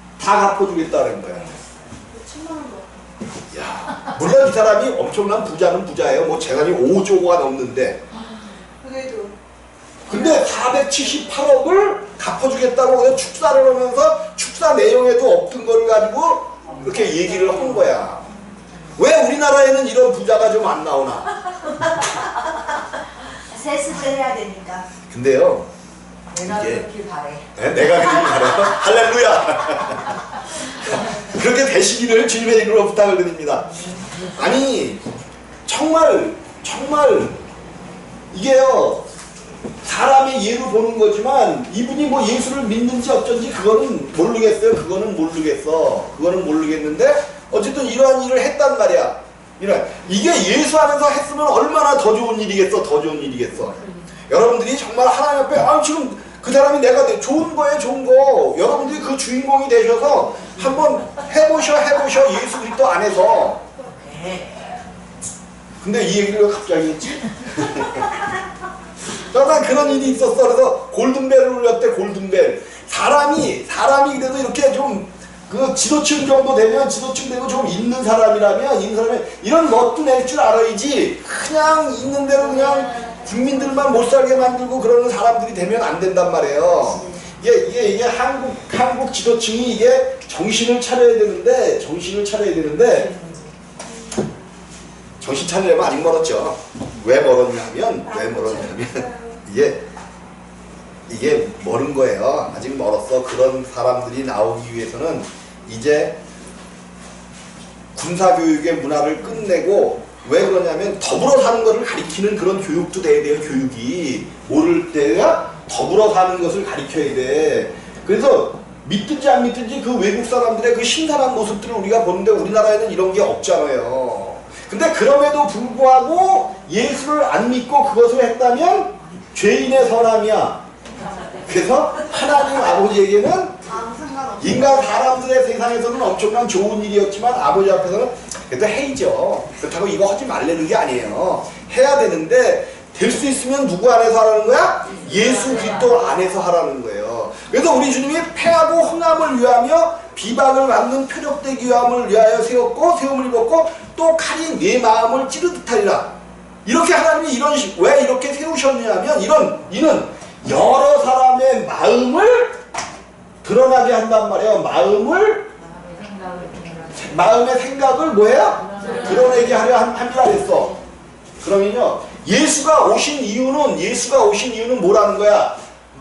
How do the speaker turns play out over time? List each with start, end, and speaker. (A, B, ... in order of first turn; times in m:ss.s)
0:00.2-0:01.5 A
0:02.1-0:03.1 B
0:03.5-0:08.0 A
0:08.1-0:09.3 B
0:10.1-0:18.2 A
0:19.0-0:21.4 A
0:23.5-0:24.8 B
0:25.1-0:25.7 A
0:26.3-0:27.4 C
0:26.4-0:26.9 A
0:27.6-0:30.1 A
0:31.0-0:35.0 A
0:35.7-0:37.4 A
0:38.3-0:39.0 A
0:39.8-1:03.6 A
1:05.8-1:08.1 A
1:09.2-1:33.1 A
1:22.8-1:23.2 B
1:33.9-1:34.2 B
1:35.2-1:39.8 A
1:38.1-1:39.4 B
1:41.1-1:46.2 A
1:47.9-2:10.6 A
2:11.4-2:13.6 A
2:13.6-2:15.1 B
2:14.4-2:36.1 A
2:36.6-2:42.6 A
2:43.4-2:45.5 A
2:45.6-2:46.9 B
2:46.0-2:46.8 C
2:46.9-2:50.8 A
2:48.8-2:49.5 B
2:51.4-2:55.6 A